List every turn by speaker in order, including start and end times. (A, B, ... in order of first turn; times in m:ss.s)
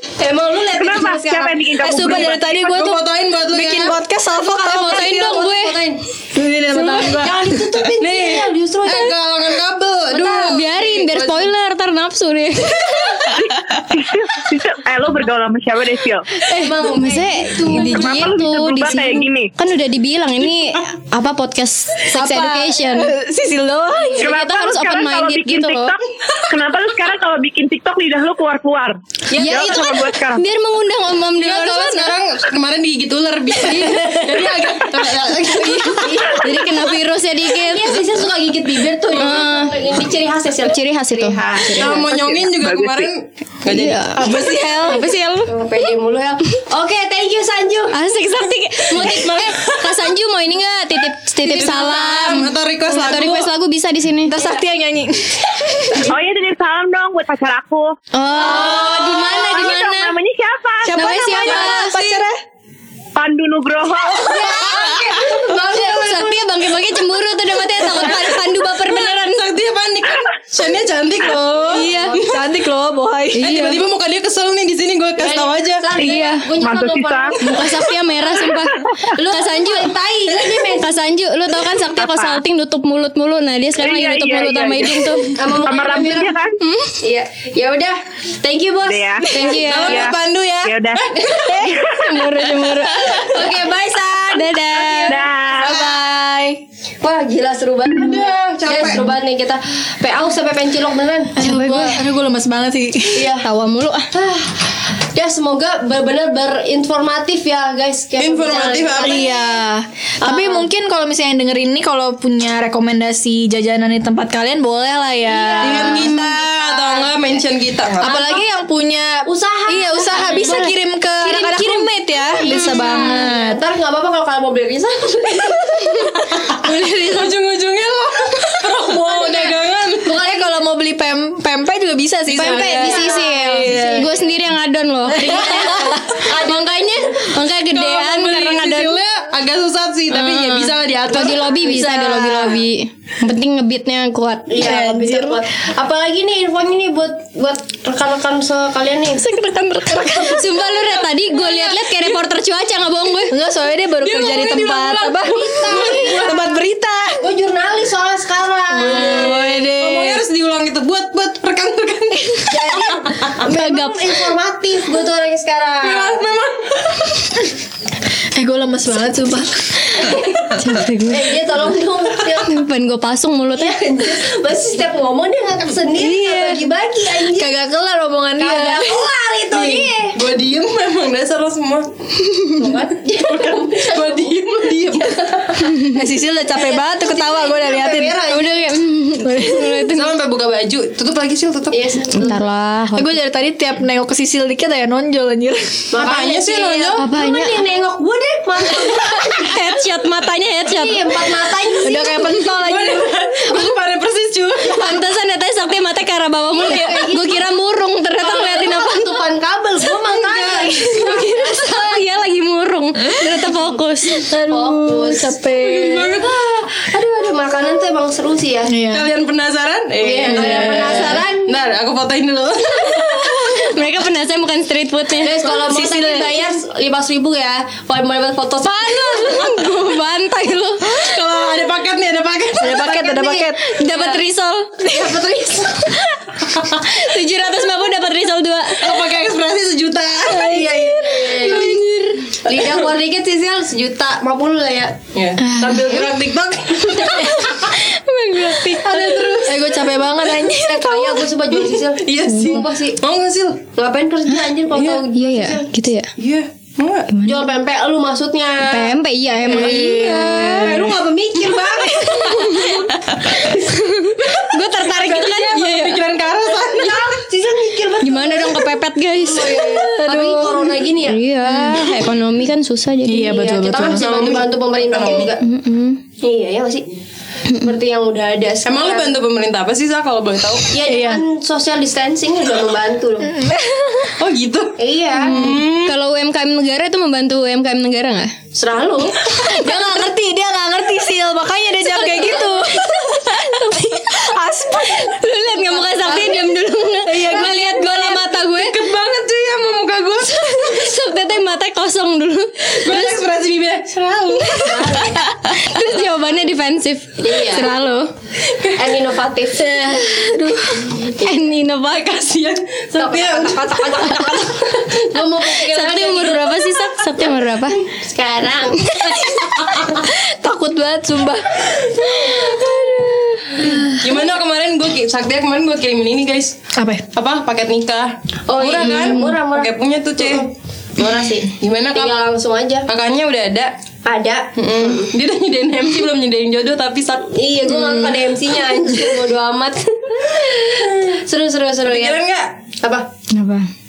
0:00.2-0:02.1 A
0:00.8-0:02.5 B
0:01.8-0:05.4 C
0:02.2-0:04.0 D
0:04.5-0:06.0 A
0:04.6-0:05.8 E
0:06.3-0:07.7 C
0:06.7-0:09.2 A
0:08.0-0:11.4 D
0:10.2-0:13.4 E
0:11.0-0:11.4 A
0:13.4-0:16.3 B
0:16.5-0:23.1 E
0:16.5-0:18.3 A
0:17.7-0:19.5 B
0:22.1-0:24.3 C
0:24.2-0:25.9 E
0:24.2-0:26.0 B
0:26.5-0:30.4 B
0:29.3-0:32.2 E
0:31.3-0:36.3 D
0:33.7-0:34.2 E
0:35.6-0:38.0 E
0:36.0-0:36.6 A
0:37.6-0:42.0 A
0:39.1-0:39.8 E
0:40.6-0:42.1 E
0:41.8-0:44.1 D
0:42.0-0:43.1 B
0:43.6-0:45.5 E
0:44.1-0:45.0 C
0:45.4-0:48.0 A
0:47.9-0:54.4 E
0:49.0-0:49.4 A
0:49.0-0:49.9 D
0:51.4-0:53.5 D
0:54.3-0:56.2 C
0:56.0-0:58.0 B
0:58.1-1:00.2 E
0:58.4-0:59.3 C
0:58.4-0:59.3 A
0:58.8-1:01.1 B
1:00.8-1:02.3 C
1:00.9-1:02.2 E
1:03.2-1:04.6 B
1:04.2-1:06.5 A
1:05.7-1:09.4 E
1:07.9-1:08.3 D
1:08.8-1:12.4 D
1:11.7-1:13.5 C
1:11.7-1:12.1 E
1:11.8-1:12.2 A
1:13.3-1:13.8 E
1:13.4-1:15.9 D
1:15.2-1:17.6 A
1:16.0-1:17.3 B
1:16.0-1:16.4 E
1:17.4-1:19.9 E
1:19.1-1:20.9 A
1:20.6-1:25.4 E
1:22.0-1:22.4 B
1:23.8-1:26.6 B
1:25.4-1:26.3 A
1:26.6-1:26.9 E
1:27.0-1:29.9 A
1:28.8-1:32.2 B
1:29.3-1:30.1 E
1:29.4-1:31.6 D
1:31.2-1:31.5 A
1:31.9-1:33.3 E
1:33.1-1:35.2 A
1:34.3-1:36.5 E
1:35.1-1:35.8 B
1:35.7-1:36.3 C
1:37.0-1:41.4 A
1:37.9-1:39.1 D
1:41.4-1:43.3 C
1:41.4-1:42.0 E
1:43.1-1:43.4 A
1:43.4-1:44.1 E
1:44.1-1:49.6 A
1:48.2-1:49.3 D
1:49.0-1:56.2 C
1:50.2-1:50.7 A
1:55.3-1:57.1 A
1:55.6-1:58.3 D
1:56.0-1:56.3 E
1:58.0-2:03.6 C
1:59.2-2:00.7 A
2:00.4-2:00.7 E
2:01.2-2:01.8 E
2:01.3-2:06.1 A
2:02.4-2:03.2 E
2:05.8-2:07.0 C
2:06.6-2:07.3 E
2:07.0-2:10.2 D
2:08.9-2:10.5 A
2:10.1-2:14.1 C
2:12.3-2:19.0 E
2:12.4-2:12.7 D
2:12.4-2:14.4 A
2:15.1-2:16.2 C
2:15.3-2:17.0 A
2:17.7-2:22.0 D
2:20.1-2:24.6 E
2:21.9-2:22.6 C
2:24.5-2:29.2 A
2:24.6-2:25.4 C
2:29.2-2:30.4 C
2:29.8-2:33.3 E
2:31.1-2:32.2 D
2:33.3-2:37.2 C
2:34.0-2:36.4 D
2:35.3-2:36.6 A
2:37.2-2:39.6 A
2:38.7-2:40.2 C
2:38.9-2:43.4 D
2:42.5-2:46.2 A
2:43.4-2:44.2 E
2:45.8-2:47.1 D
2:48.3-2:49.5 C
2:50.0-2:50.4 A
2:50.1-2:51.3 E
2:51.1-2:52.5 A
2:52.4-2:53.8 E
2:53.5-2:57.5 A
2:56.0-2:56.6 C
2:57.3-2:58.9 C
2:58.4-3:00.2 A
2:59.6-3:01.9 D
3:02.6-3:05.8 A
3:03.2-3:05.3 D
3:05.9-3:08.2 C
3:06.5-3:08.5 A
3:08.3-3:10.2 E
3:09.2-3:09.7 C
3:09.7-3:11.9 D
3:11.7-3:12.4 A
3:12.1-3:13.2 E
3:12.9-3:15.9 C
3:15.9-3:19.6 A
3:16.0-3:17.1 D
3:17.0-3:17.6 E
3:19.4-3:21.1 E
3:20.7-3:22.3 A
3:21.8-3:23.1 C
3:22.4-3:24.9 D
3:24.7-3:29.2 E
3:26.6-3:27.4 A
3:28.2-3:32.0 A
3:30.6-3:34.9 E
3:34.3-3:36.1 C
3:34.5-3:35.4 A
3:35.5-3:36.3 D
3:36.0-3:38.8 A
3:38.7-3:39.1 C
3:38.9-3:43.3 D
3:40.0-3:41.5 A
3:40.3-3:40.7 C
3:43.1-3:45.5 E
3:45.2-3:49.3 A
3:45.4-3:46.4 C
3:48.6-3:51.2 E
3:50.8-3:52.9 D
3:52.6-3:53.6 C
3:52.8-3:54.2 A
3:53.5-3:55.2 E
3:54.8-3:55.8 A
3:55.9-3:59.1 E
3:58.8-4:01.1 D
4:00.2-4:02.4 E
4:00.8-4:01.7 A
4:02.4-4:05.0 A
4:05.1-4:07.2 D
4:05.4-4:06.0 C
4:06.9-4:10.8 E
4:06.9-4:07.3 A
4:08.8-4:09.6 D
4:09.4-4:11.2 C
4:10.7-4:13.0 A
4:11.5-4:13.6 D
4:13.7-4:15.7 A
4:14.3-4:16.1 E
4:14.7-4:15.0 D
4:16.2-4:17.1 D
4:17.1-4:17.4 E
4:17.2-4:18.9 A
4:18.6-4:20.9 E
4:19.4-4:22.9 A
4:19.5-4:20.6 C
4:20.5-4:22.1 D
4:21.8-4:26.0 E
4:24.8-4:25.4 A
4:25.2-4:27.2 D
4:26.7-4:28.6 A
4:26.7-4:27.0 E
4:28.0-4:30.5 E
4:29.3-4:31.2 A
4:29.4-4:30.7 C
4:31.0-4:33.4 E
4:31.4-4:31.9 C
4:33.0-4:34.0 C
4:33.3-4:35.4 A
4:34.0-4:35.3 D
4:35.2-4:36.0 E
4:36.2-4:36.8 A
4:37.6-4:39.2 A
4:38.6-4:40.8 D
4:40.7-4:43.3 A
4:40.9-4:41.2 C
4:43.2-4:44.1 C
4:44.2-4:46.0 D
4:44.8-4:45.4 A
4:45.2-4:48.3 E
4:48.5-4:49.2 A
4:49.4-4:55.1 C
4:49.5-4:50.1 E
4:51.8-4:53.8 E
4:54.8-4:58.8 E
4:56.0-4:56.5 A
4:57.1-4:57.6 C
4:57.1-4:57.5 A
4:57.7-5:00.7 D
5:00.3-5:03.2 E
5:02.7-5:05.0 D
5:04.6-5:08.1 E
5:04.6-5:05.2 A
5:07.2-5:07.7 A
5:08.5-5:08.8 D
5:08.8-5:09.7 A
5:09.6-5:12.6 E
5:10.1-5:10.4 C
5:10.9-5:11.5 A
5:12.8-5:13.7 D
5:12.9-5:16.6 A
5:14.0-5:14.4 E
5:15.4-5:17.8 E
5:17.8-5:19.2 A
5:18.9-5:22.5 C
5:22.0-5:23.6 E
5:23.5-5:24.1 C
5:24.0-5:26.6 D
5:26.7-5:27.0 C
5:27.1-5:30.5 D
5:28.5-5:32.9 A
5:28.9-5:29.3 E
5:31.6-5:32.1 D
5:32.9-5:33.7 D
5:34.0-5:35.1 A
5:34.5-5:37.2 D
5:37.2-5:42.2 A
5:37.7-5:38.1 E
5:41.8-5:42.5 D
5:42.8-5:43.1 A
5:43.3-5:43.6 E